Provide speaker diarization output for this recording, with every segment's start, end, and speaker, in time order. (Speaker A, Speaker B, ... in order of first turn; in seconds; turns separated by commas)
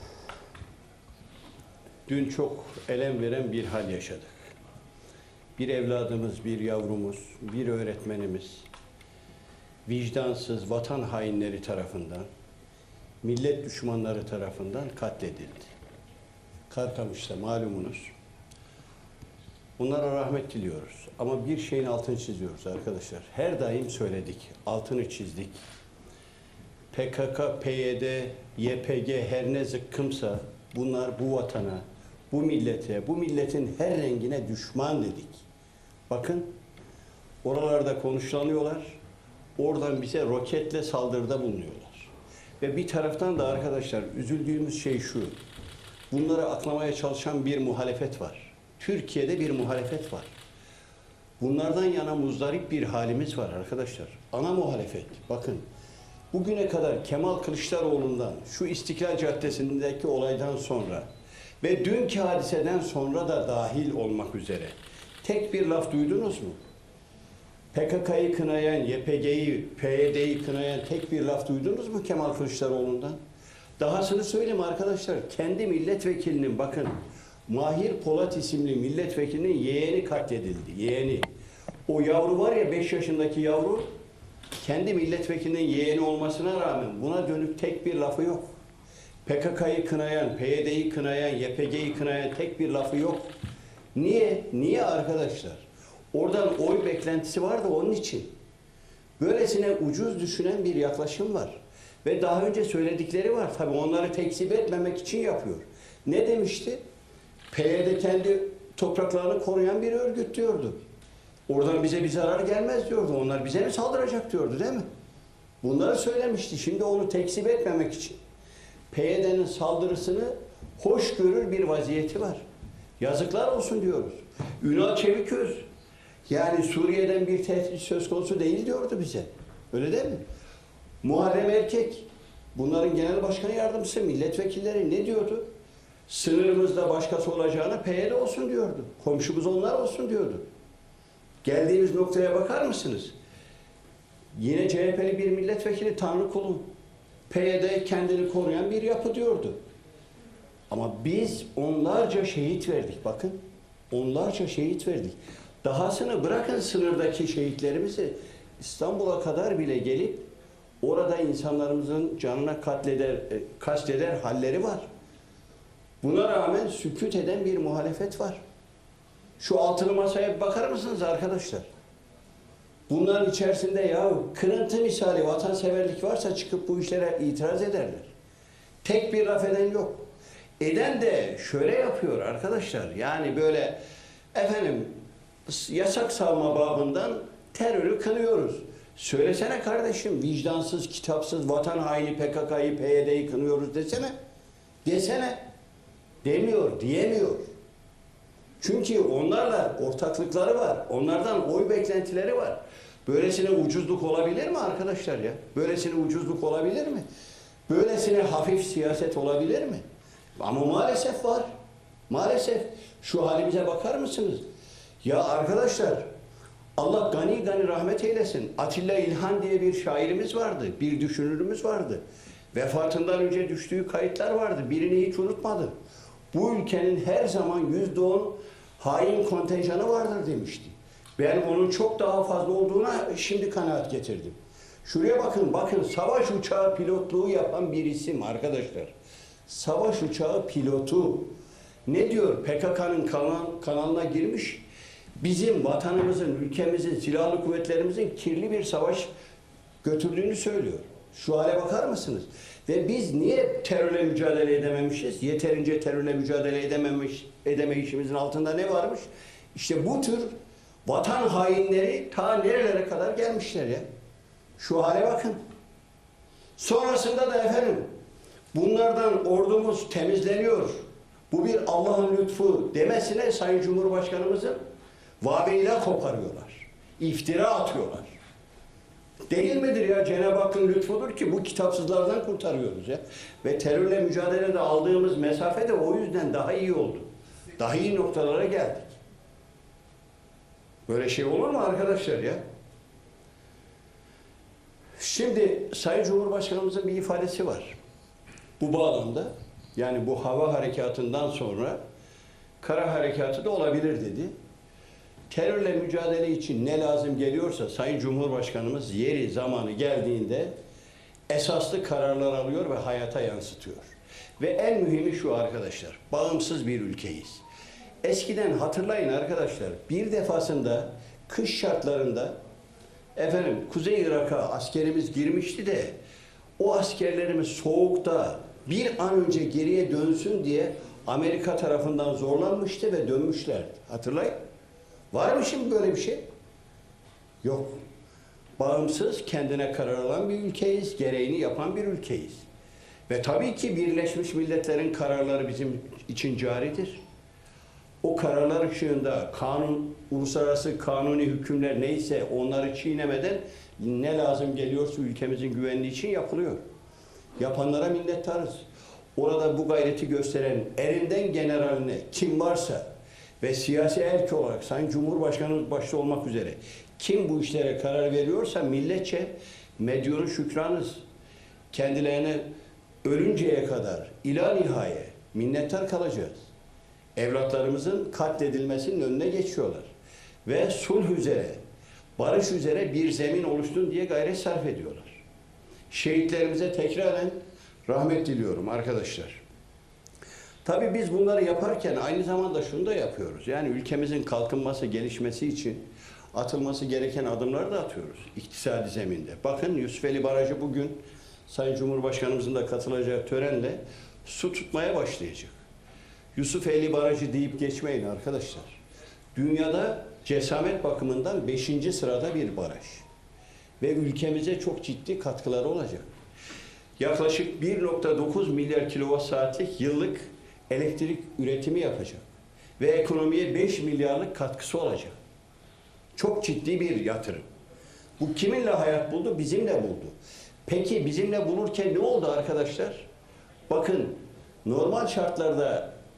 Speaker A: 2.1-4.5, Speaker A: 5.6-8.7, Speaker A: 9.8-12.3, Speaker A: 13.2-15.7, Speaker A: 16.7-18.1, Speaker A: 19.8-25.6, Speaker A: 26.9-35.4, Speaker A: 36.1-36.5, Speaker A: 37.4-39.0, Speaker A: 39.6-45.3, Speaker A: 46.1-50.3, Speaker A: 51.4-55.6, Speaker A: 56.3-61.0, Speaker A: 61.6-66.6, Speaker A: 67.7-73.2, Speaker A: 73.8-81.3, Speaker A: 81.9-83.9, Speaker A: 84.6-88.5, Speaker A: 89.2-93.3, Speaker A: 93.9-98.3, Speaker A: 99.2-106.8, Speaker A: 107.5-110.8, Speaker A: 111.5-114.8, Speaker A: 115.6-118.2, Speaker A: 118.9-122.4, Speaker A: 123.0-125.6, Speaker A: 126.3-130.2, Speaker A: 131.0-135.4, Speaker A: 136.1-140.4, Speaker A: 141.4-143.1, Speaker A: 144.3-146.7, Speaker A: 147.3-149.6, Speaker A: 150.7-153.4, Speaker A: 153.9-160.3, Speaker A: 160.8-164.8, Speaker A: 166.0-168.4, Speaker A: 169.4-171.7, Speaker A: 172.9-178.1, Speaker A: 178.8-180.1, Speaker A: 180.6-183.8, Speaker A: 184.3-184.9, Speaker A: 185.5-194.1, Speaker A: 194.8-195.4, Speaker A: 196.2-197.4, Speaker A: 198.6-207.1, Speaker A: 207.7-209.8, Speaker A: 210.4-211.5, Speaker A: 212.1-214.4, Speaker A: 215.0-216.1, Speaker A: 216.8-222.0, Speaker A: 222.5-225.7, Speaker A: 226.3-238.9, Speaker A: 239.5-241.3, Speaker A: 241.9-244.6, Speaker A: 245.2-249.1, Speaker A: 249.8-260.3, Speaker A: 260.9-263.8, Speaker A: 264.6-265.4, Speaker A: 266.6-267.9, Speaker A: 268.5-274.6, Speaker A: 275.2-278.1, Speaker A: 279.3-289.0, Speaker A: 290.9-292.4, Speaker A: 295.0-297.7, Speaker A: 298.6-301.8, Speaker A: 302.6-304.3, Speaker A: 305.3-310.5, Speaker A: 311.3-317.4, Speaker A: 318.0-322.4, Speaker A: 323.1-325.9, Speaker A: 326.6-334.4, Speaker A: 335.1-336.2, Speaker A: 337.4-337.8, Speaker A: 338.6-342.4, Speaker A: 343.1-347.0, Speaker A: 348.0-356.6, Speaker A: 357.4-358.6, Speaker A: 359.1-362.9, Speaker A: 363.4-371.0, Speaker A: 371.7-372.5, Speaker A: 373.0-376.5, Speaker A: 377.1-379.9, Speaker A: 380.4-381.6, Speaker A: 382.2-385.2, Speaker A: 385.9-389.4, Speaker A: 390.6-405.6, Speaker A: 406.3-408.8, Speaker A: 409.3-413.0, Speaker A: 413.8-416.1, Speaker A: 417.0-422.2, Speaker A: 422.8-425.1, Speaker A: 426.1-427.4, Speaker A: 428.2-430.1, Speaker A: 430.7-433.0, Speaker A: 433.7-435.9